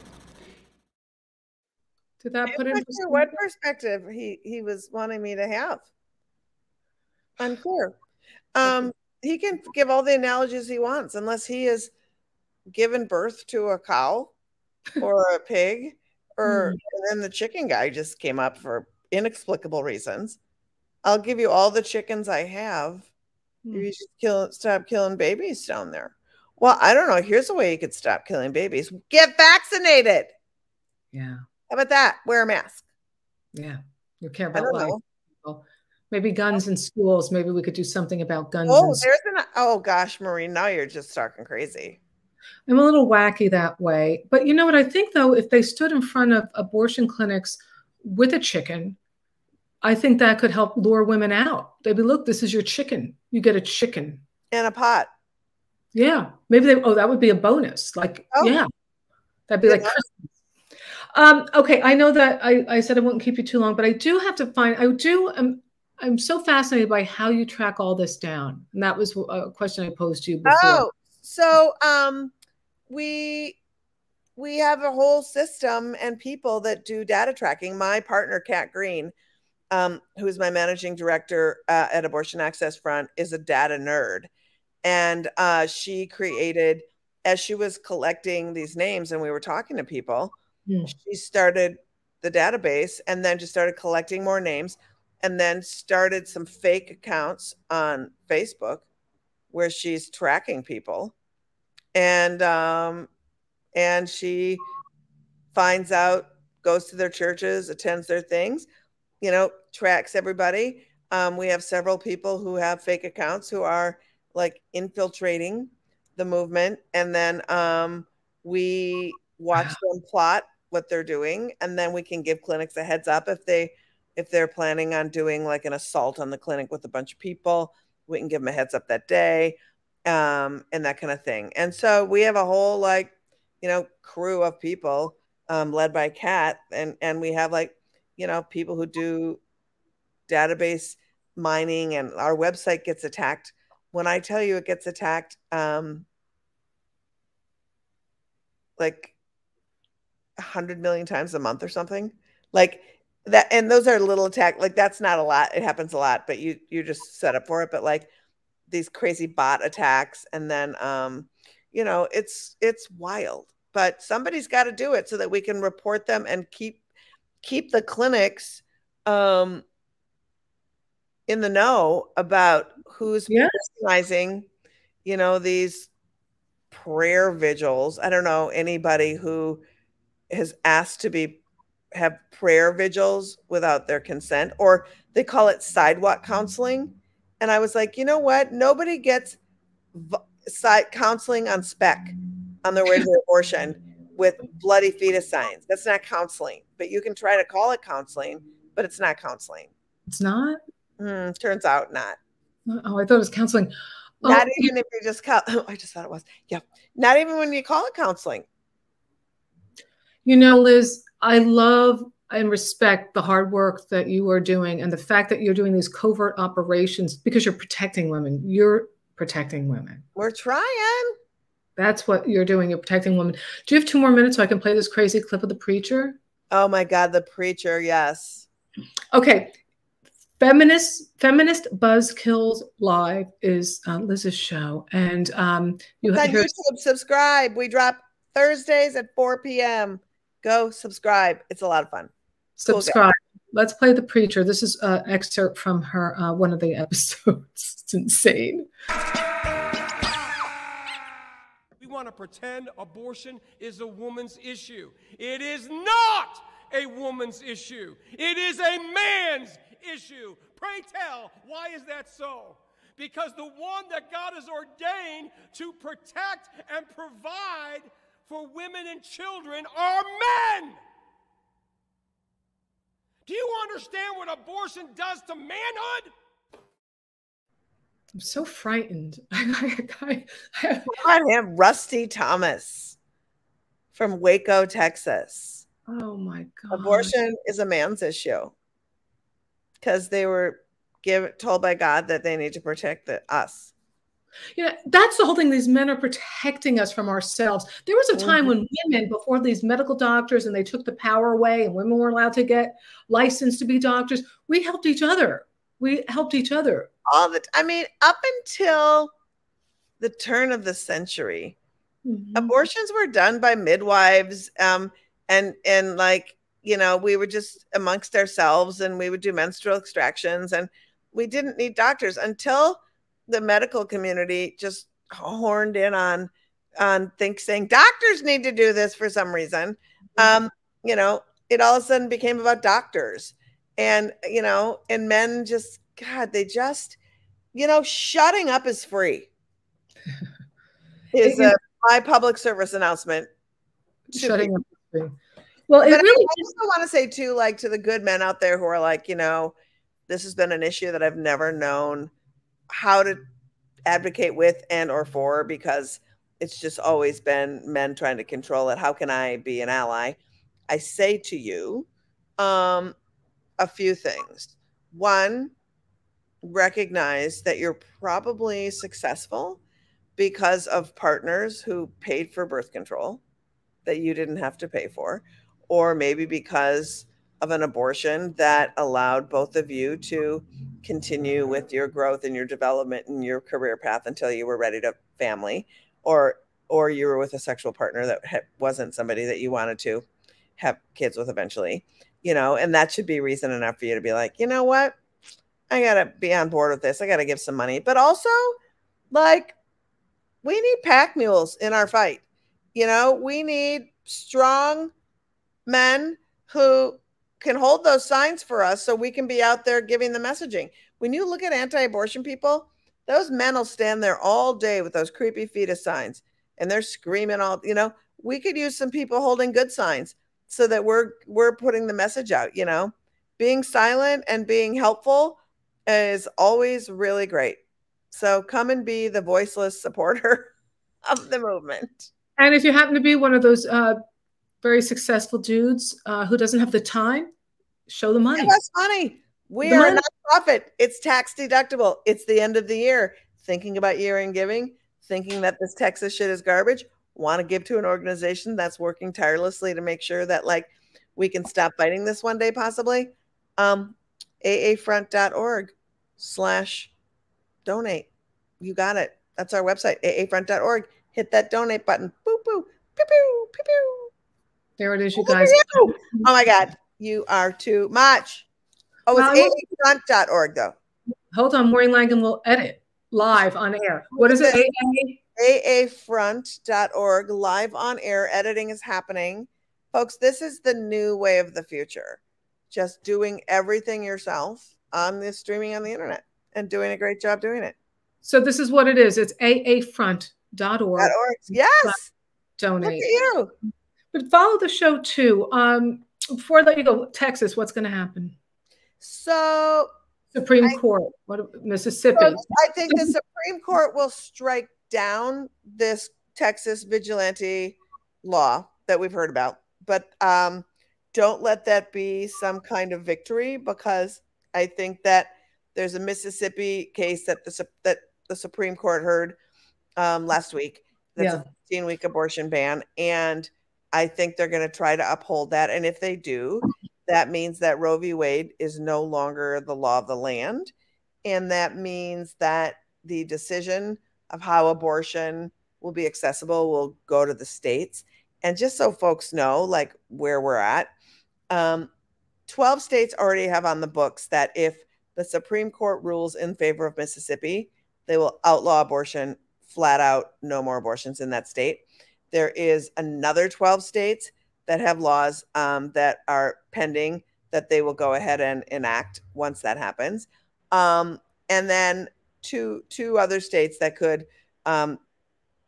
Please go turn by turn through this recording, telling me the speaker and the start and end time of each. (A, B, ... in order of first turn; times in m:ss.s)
0:02.2-0:03.3 A
0:02.5-0:05.9 B
0:07.4-0:07.9 B
0:08.5-0:11.9 B
0:12.7-0:14.3 B
0:15.0-0:20.4 B
0:16.4-0:16.8 A
0:21.0-0:23.1 B
0:23.7-0:30.3 B
0:31.1-0:31.4 A
0:31.7-0:32.8 B
0:33.5-0:39.0 A
0:34.5-0:35.0 B
0:38.6-0:42.0 B
0:42.7-0:49.0 A
0:49.8-0:54.2 A
0:54.5-0:55.1 B
0:55.9-0:58.7 A
0:59.5-1:00.3 A
0:59.6-1:00.0 B
1:01.1-1:10.8 A
1:10.4-1:12.3 B
1:12.9-1:13.6 B
1:14.4-1:19.1 B
1:19.7-1:24.3 B
1:24.8-1:30.3 B
1:30.7-1:30.9 A
1:30.8-1:38.8 B
1:39.5-1:41.1 B
1:41.9-1:43.1 B
1:43.7-1:44.6 B
1:45.5-1:48.7 B
1:49.2-2:19.4 B
2:20.3-2:26.0 B
2:28.8-2:29.1 B
2:30.4-2:38.1 B
2:38.7-2:46.8 B
2:47.4-2:49.6 B
2:51.3-2:54.5 B
2:55.0-2:55.9 B
2:56.7-2:59.6 B
3:00.3-3:01.4 B
3:01.9-3:09.4 B
3:09.9-3:19.7 B
3:20.1-3:20.6 A
3:21.0-3:22.2 B
3:22.7-3:24.7 A
3:24.2-3:28.5 B
3:30.2-3:40.0 A
3:40.2-3:41.1 B
3:41.8-3:46.2 A
3:46.5-3:48.4 B
3:49.1-3:49.5 A
3:50.4-3:56.5 A
3:56.1-4:02.1 B
4:02.6-4:08.6 A
4:02.7-4:03.0 B
4:11.8-4:30.8 C
4:33.3-4:36.1 C
4:38.1-4:40.9 A
4:40.9-4:43.0 B
4:43.9-4:45.6 B
4:45.9-4:47.1 A
4:46.7-4:48.5 B
4:49.8-4:53.7 B
4:54.6-5:06.9 A
4:58.1-4:58.5 B
5:07.0-5:09.1 B
5:10.0-5:11.6 B
5:12.0-5:12.5 A
5:12.3-5:37.0 B
5:37.5-5:39.3 B
5:41.1-5:43.3 B
5:41.2-5:41.5 A
5:44.1-5:45.1 A
5:44.1-5:44.5 B
5:45.7-5:46.4 A
5:45.8-5:49.5 B
5:50.1-5:52.1 B
5:52.7-5:53.2 B
5:53.8-6:03.0 B
6:03.6-6:05.5 B
6:06.4-6:09.6 B
6:10.2-6:13.2 B
6:13.8-6:30.0 B
6:30.6-6:35.0 B
6:35.7-6:38.6 B
6:39.1-6:39.6 B
6:40.4-6:42.2 B
6:42.7-6:44.9 B
6:45.6-7:07.6 B
7:08.1-7:10.5 B
7:11.0-7:12.1 B
7:12.4-7:14.0 A
7:14.6-7:17.3 A
7:17.9-7:18.6 A
7:18.4-7:36.9 B
7:19.6-7:20.0 A
7:37.6-7:38.1 B
7:38.6-7:44.1 B
7:44.8-7:46.2 A
7:45.2-7:48.4 B
7:49.1-7:50.8 B
7:49.1-7:49.6 A
7:51.3-7:55.2 A
7:54.1-7:54.6 B
7:55.4-8:07.7 B
8:08.2-8:12.0 A
8:11.0-8:12.1 B
8:12.6-8:13.1 A
8:12.8-8:13.5 B
8:14.1-8:18.4 A
8:19.0-8:19.9 B
8:20.3-8:22.4 A
8:22.1-8:39.4 B
8:40.0-8:50.7 B
8:41.2-8:41.4 A
8:51.2-9:00.9 B
9:01.5-9:01.9 B
9:02.5-9:25.0 B